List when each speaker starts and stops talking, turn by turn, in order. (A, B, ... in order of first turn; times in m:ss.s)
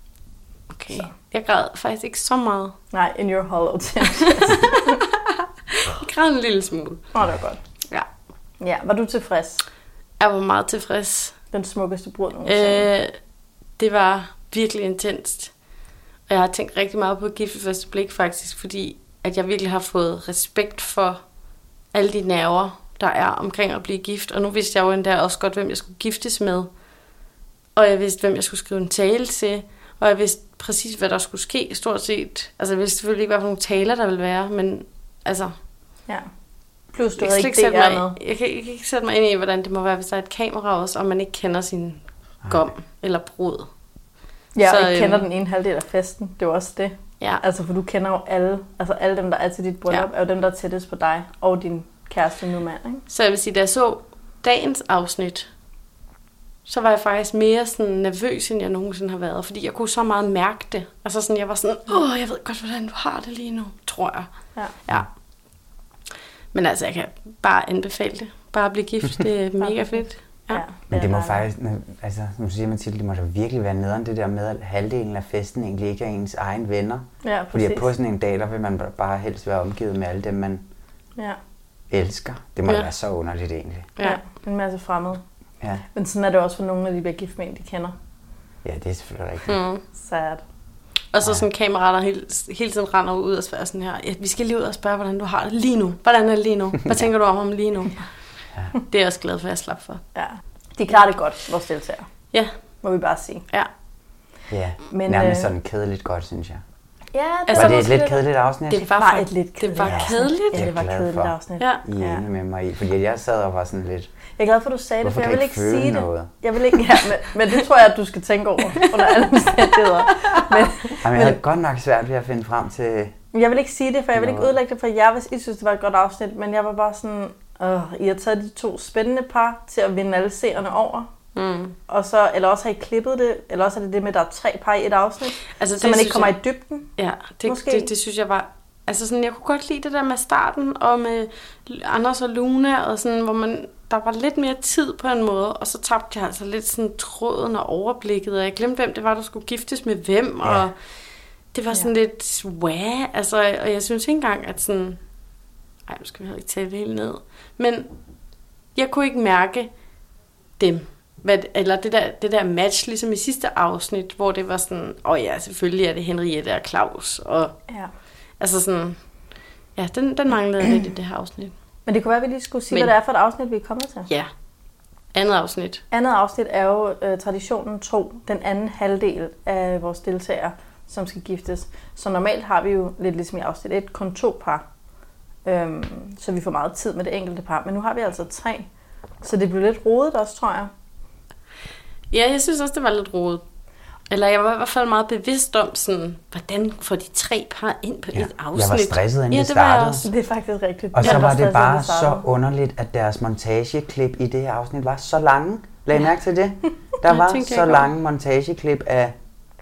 0:00.7-0:02.8 A
0:02.9-0:05.0 B
0:04.2-0:05.2 A
0:05.7-0:07.0 A
0:07.2-0:07.6 B
0:08.6-0:09.6 B
0:10.2-0:11.4 A
0:11.5-0:12.9 B
0:12.5-0:13.2 A
0:13.8-0:15.5 A
0:16.3-0:21.2 A
0:21.9-0:26.7 A
0:27.8-0:35.5 A
0:36.9-0:38.2 B
0:37.2-0:43.7 A
0:44.6-0:53.0 B
0:44.6-0:45.3 A
0:53.1-0:55.5 A
0:56.7-1:04.3 A
1:06.5-1:10.6 A
1:09.6-1:11.4 B
1:10.9-1:20.6 C
1:17.2-1:17.9 B
1:21.9-1:23.9 C
1:24.0-1:25.2 B
1:26.0-1:27.9 B
1:28.6-1:29.6 C
1:29.5-1:29.8 A
1:29.9-1:30.4 B
1:31.1-1:38.0 A
1:38.9-1:40.0 A
1:40.2-1:42.1 B
1:42.8-1:43.4 B
1:44.5-1:46.6 C
1:44.9-1:45.5 B
1:47.1-1:48.2 B
1:47.5-1:48.0 A
1:47.6-1:48.9 C
1:48.7-1:50.7 A
1:49.0-1:52.2 B
1:49.8-1:54.1 C
1:54.4-2:01.4 B
1:55.0-1:56.3 C
2:01.0-2:03.2 C
2:03.3-2:11.1 B
2:04.1-2:04.6 C
2:11.4-2:11.8 A
2:11.9-2:16.9 B
2:15.5-2:16.4 A
2:17.0-2:30.7 A
2:17.5-2:17.9 B
2:31.5-2:35.0 A
2:35.9-2:37.9 A
2:38.8-2:39.7 A
2:40.6-2:47.6 A
2:48.4-2:49.0 A
2:49.8-2:51.5 A
2:51.9-2:54.1 B
2:55.1-2:55.8 A
2:55.9-3:04.6 B
3:05.4-3:08.7 B
3:09.2-3:10.7 B
3:12.1-3:13.4 A
3:14.1-3:20.1 A
3:18.1-3:20.1 C
3:20.0-3:22.3 B
3:20.9-3:29.2 C
3:21.0-3:21.3 A
3:27.1-3:27.9 A